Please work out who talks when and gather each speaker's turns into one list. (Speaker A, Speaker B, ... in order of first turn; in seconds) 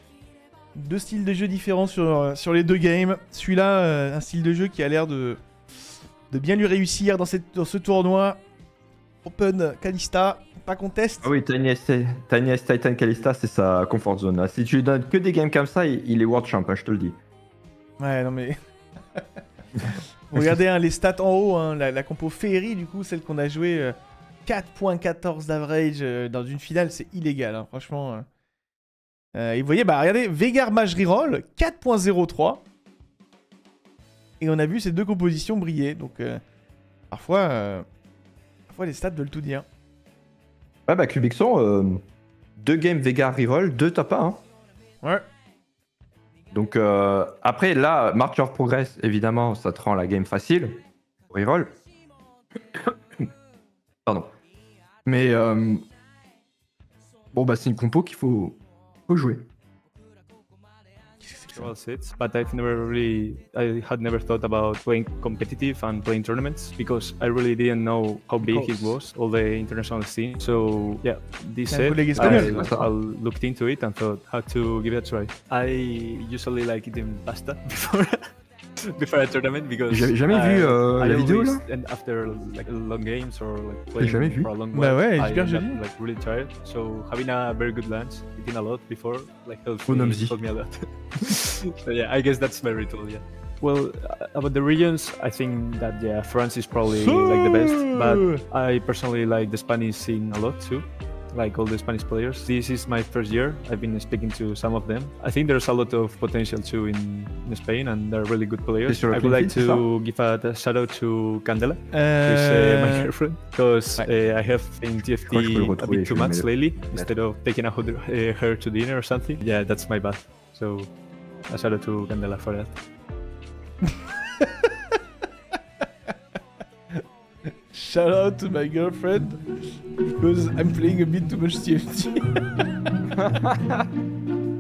Speaker A: 0.8-5.4, 6.3-8.4, 9.2-11.3, 18.0-18.6, 19.9-23.9, 24.5-28.3, 29.3-32.6, 34.4-36.4, 37.1-37.9, 38.7-39.7, 61.2-61.7, 68.4-69.0, 71.7-72.7, 84.7-85.8, 96.9-98.4, 111.9-113.1, 123.9-125.0, 127.7-129.4, 130.2-132.4
Speaker B: 11.2-17.2, 40.9-42.0, 42.6-44.4, 46.5-51.8, 52.8-53.3, 55.1-55.9, 57.3-59.4, 72.2-72.9, 79.9-81.6, 84.0-84.5, 89.9-90.4, 108.9-109.9, 115.3-117.1, 133.2-133.9
Speaker C: 61.5-78.3, 78.8-120.9, 121.5-122.8